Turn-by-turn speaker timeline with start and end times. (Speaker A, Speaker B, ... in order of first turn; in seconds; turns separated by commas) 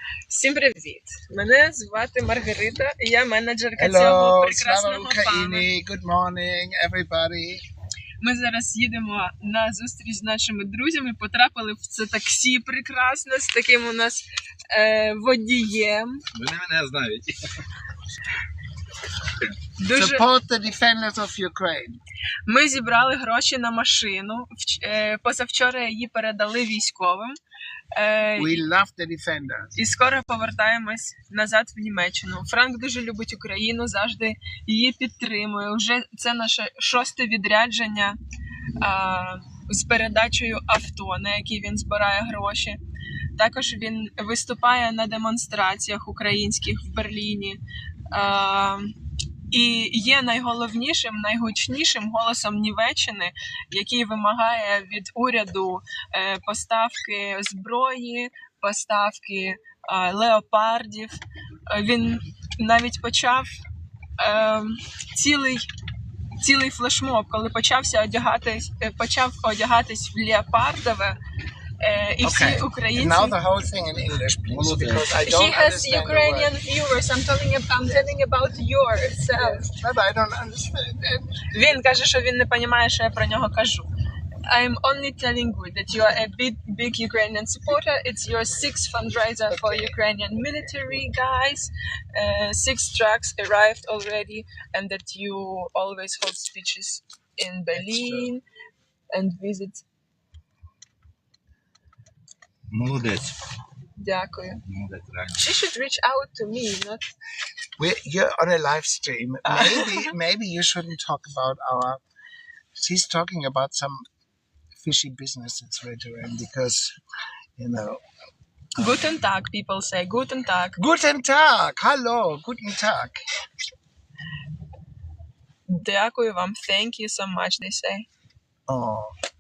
Speaker A: 0.3-5.7, Speaker B: 3.8-7.6, Speaker A: 8.2-16.2, Speaker C: 16.3-17.5, Speaker A: 19.8-20.2, Speaker B: 19.9-22.0, Speaker A: 22.5-27.4, Speaker A: 27.9-28.6, Speaker B: 28.4-29.7, Speaker A: 29.8-38.2, Speaker A: 38.8-42.8, Speaker A: 43.4-47.6, Speaker A: 48.1-48.9, Speaker A: 49.5-61.2, Speaker A: 61.7-63.5, Speaker A: 64.2-65.6, Speaker A: 66.4-71.2, Speaker A: 71.8-73.4, Speaker B: 72.2-76.5, Speaker C: 74.5-75.1, Speaker A: 75.2-79.7, Speaker B: 77.8-78.1, Speaker B: 79.4-81.5, Speaker A: 81.5-83.9, Speaker A: 84.5-98.4, Speaker B: 89.5-89.9, Speaker C: 97.7-98.1, Speaker A: 99.1-99.8, Speaker C: 102.7-103.3, Speaker A: 104.0-104.6, Speaker C: 104.7-105.4, Speaker A: 105.4-107.0, Speaker B: 107.8-112.0, Speaker A: 109.5-110.1, Speaker B: 112.8-114.1, Speaker B: 114.8-117.0, Speaker B: 117.6-118.0, Speaker A: 118.8-120.8, Speaker B: 120.8-123.2, Speaker A: 125.7-128.1, Speaker B: 128.7-129.1